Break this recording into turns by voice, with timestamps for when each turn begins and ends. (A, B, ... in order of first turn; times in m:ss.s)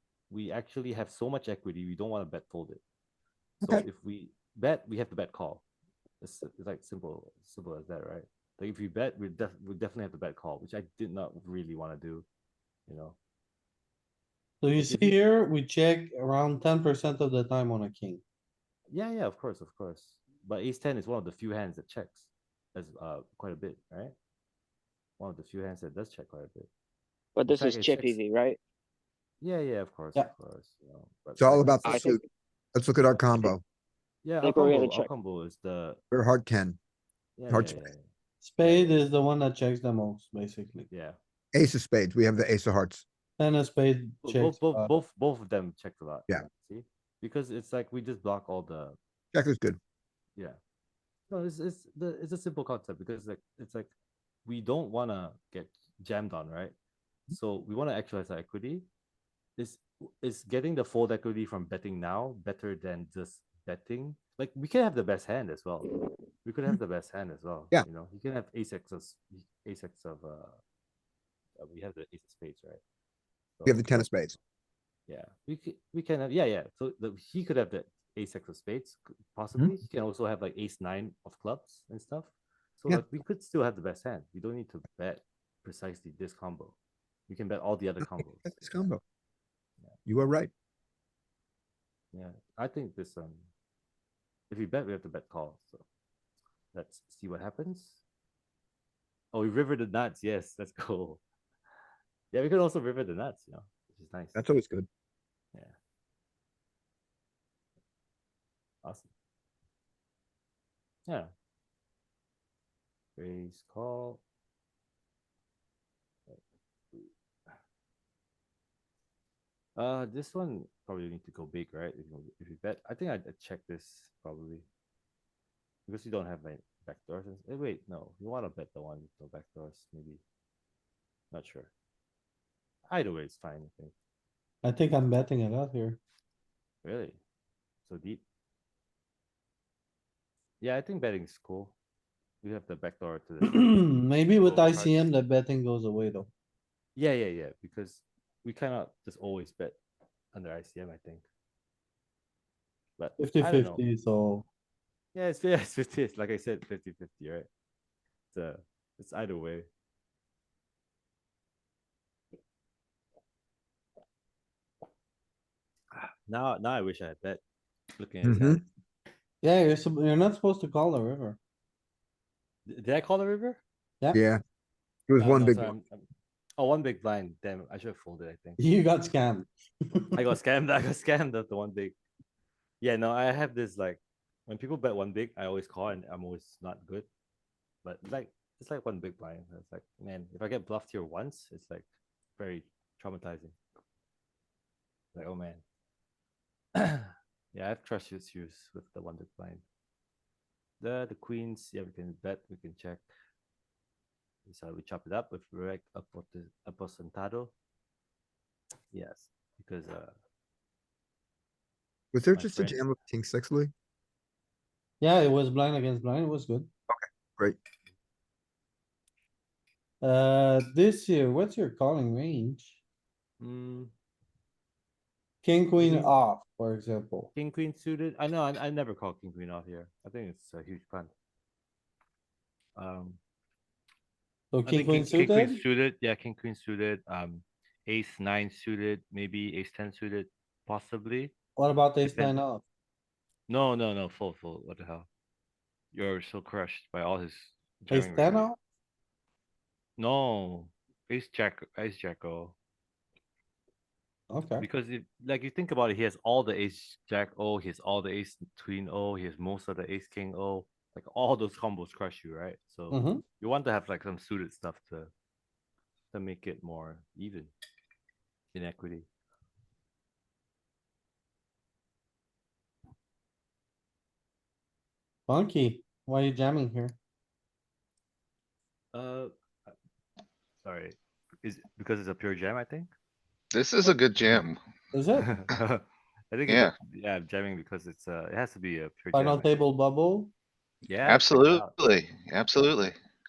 0:00.3-0:02.8 A
0:03.6-0:05.6 A
0:06.2-0:12.3 A
0:12.9-0:13.2 A
0:14.6-0:18.2 B
0:14.8-0:15.2 A
0:18.9-0:24.2 A
0:25.2-0:26.7 A
0:27.4-0:28.6 C
0:27.5-0:28.2 A
0:29.4-0:32.0 A
0:31.4-0:32.2 D
0:31.8-0:32.2 C
0:32.8-0:33.6 D
0:34.2-0:36.0 A
0:34.4-0:35.1 C
0:36.1-0:36.8 D
0:37.4-0:38.0 A
0:37.5-0:37.9 D
0:38.4-0:40.9 B
0:38.6-0:39.1 A
0:40.9-0:41.2 A
0:41.5-0:43.0 D
0:43.4-0:44.9 B
0:44.2-0:49.0 A
0:49.3-0:49.8 D
0:51.3-0:53.9 A
0:54.5-0:56.8 A
0:57.3-0:58.9 A
0:59.6-1:10.6 A
1:11.6-1:12.8 A
1:13.6-1:14.4 A
1:13.6-1:14.4 D
1:15.1-1:26.8 A
1:27.3-1:29.0 A
1:28.0-1:29.0 D
1:30.1-1:30.5 D
1:32.1-1:33.5 A
1:34.5-1:35.8 A
1:36.7-1:38.0 A
1:39.3-1:41.2 A
1:42.3-1:44.4 A
1:44.4-1:44.9 D
1:48.8-1:49.1 A
1:51.1-1:51.3 A
1:53.2-1:54.2 A
1:59.8-2:04.7 A
2:05.9-2:10.2 A
2:11.3-2:11.7 A
2:12.9-2:13.9 A
2:14.6-2:16.0 B
2:16.8-2:17.2 A
2:17.8-2:18.2 A
2:20.6-2:21.8 A
2:22.4-2:23.7 A
2:23.4-2:26.3 B
2:24.4-2:25.1 A
2:27.0-2:29.8 A
2:30.3-2:31.3 A
2:33.0-2:33.9 A
2:33.2-2:34.5 B
2:35.1-2:37.5 A
2:38.3-2:39.7 A
2:46.0-2:47.4 A
2:48.0-2:48.7 A
2:48.2-2:48.6 D
2:49.4-2:51.4 B
2:52.7-2:53.6 A
2:54.1-2:54.4 D
2:55.1-2:55.8 D
2:55.2-2:56.1 A
2:56.6-2:58.6 A
2:58.6-3:00.2 B
3:00.2-3:02.0 A
3:02.8-3:07.1 A
3:07.8-3:11.8 A
3:12.4-3:13.6 A
3:15.1-3:15.6 A
3:16.8-3:19.6 A
3:20.8-3:23.0 A
3:24.5-3:27.5 A
3:28.9-3:30.1 A
3:32.1-3:33.7 D
3:32.4-3:32.9 A
3:35.0-3:36.7 B
3:36.9-3:37.6 D
3:40.0-3:42.8 B
3:43.4-3:43.9 A
3:45.4-3:47.3 B
3:45.8-3:46.1 A
3:47.4-3:51.1 A
3:52.8-3:53.2 A
3:54.5-3:55.6 B
3:54.6-4:01.3 A
4:01.6-4:02.6 B
4:02.0-4:02.4 A
4:03.5-4:05.1 A
4:05.9-4:08.5 A
4:07.9-4:08.6 B
4:10.0-4:12.6 A
4:14.3-4:14.7 B
4:14.6-4:25.1 A
4:22.9-4:23.2 B
4:26.1-4:27.5 A
4:28.5-4:29.1 A
4:35.3-4:37.0 B
4:38.9-4:39.3 A
4:40.6-4:42.9 A
4:43.5-4:44.6 E
4:44.9-4:45.3 B
4:45.2-4:49.6 A
4:46.5-4:46.7 E
4:49.1-4:50.3 B
4:50.9-4:51.8 A
4:51.0-4:53.0 E